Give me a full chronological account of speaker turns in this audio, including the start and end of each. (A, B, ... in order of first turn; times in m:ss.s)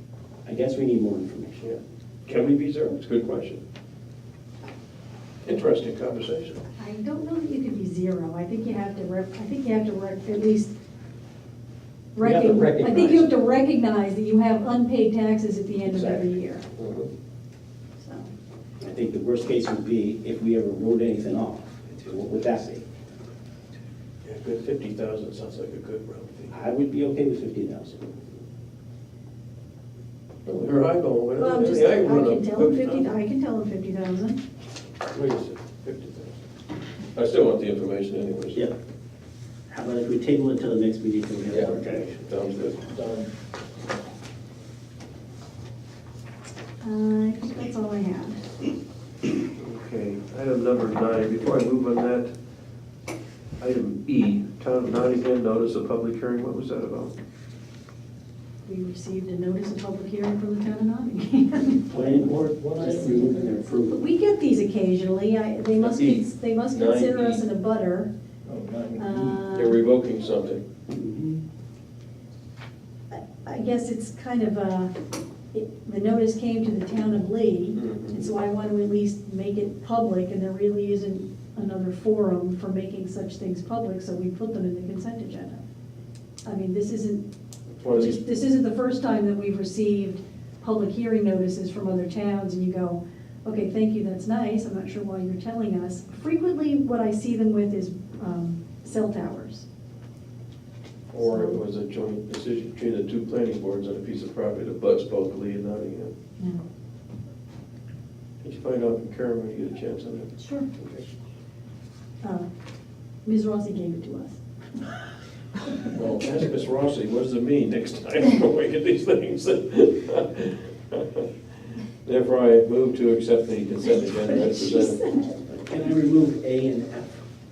0:00.4-0:01.7 A
0:01.6-0:03.6 B
0:05.4-0:06.6 B
0:06.8-0:10.7 C
0:12.2-0:16.6 C
0:12.2-0:13.3 D
0:15.9-0:17.1 B
0:18.0-0:18.3 C
0:18.8-0:22.9 A
0:24.2-0:26.5 B
0:26.5-0:28.1 A
0:30.5-0:33.2 B
0:31.4-0:34.4 C
0:35.1-0:36.4 B
0:37.2-0:38.6 B
0:39.7-0:42.2 A
0:41.5-0:43.2 B
0:42.9-0:43.2 D
0:46.8-0:48.4 C
0:49.6-0:52.3 B
0:53.6-0:57.1 B
0:58.7-1:01.8 C
1:01.9-1:04.0 A
1:01.9-1:03.6 D
1:03.8-1:08.1 C
1:05.8-1:07.4 B
1:08.5-1:09.4 D
1:09.0-1:09.8 C
1:09.5-1:10.6 B
1:10.9-1:11.4 A
1:13.1-1:14.9 C
1:15.5-1:25.6 C
1:17.8-1:18.3 B
1:26.4-1:27.2 C
1:27.8-1:28.2 B
1:27.8-1:39.7 C
1:41.1-1:46.1 B
1:41.2-1:41.6 C
1:48.4-1:51.0 B
1:50.4-1:50.7 C
1:52.2-1:52.5 C
1:53.2-1:54.4 C
1:55.9-2:01.3 B
2:02.0-2:05.0 B
2:03.8-2:05.4 C
2:05.5-2:07.2 A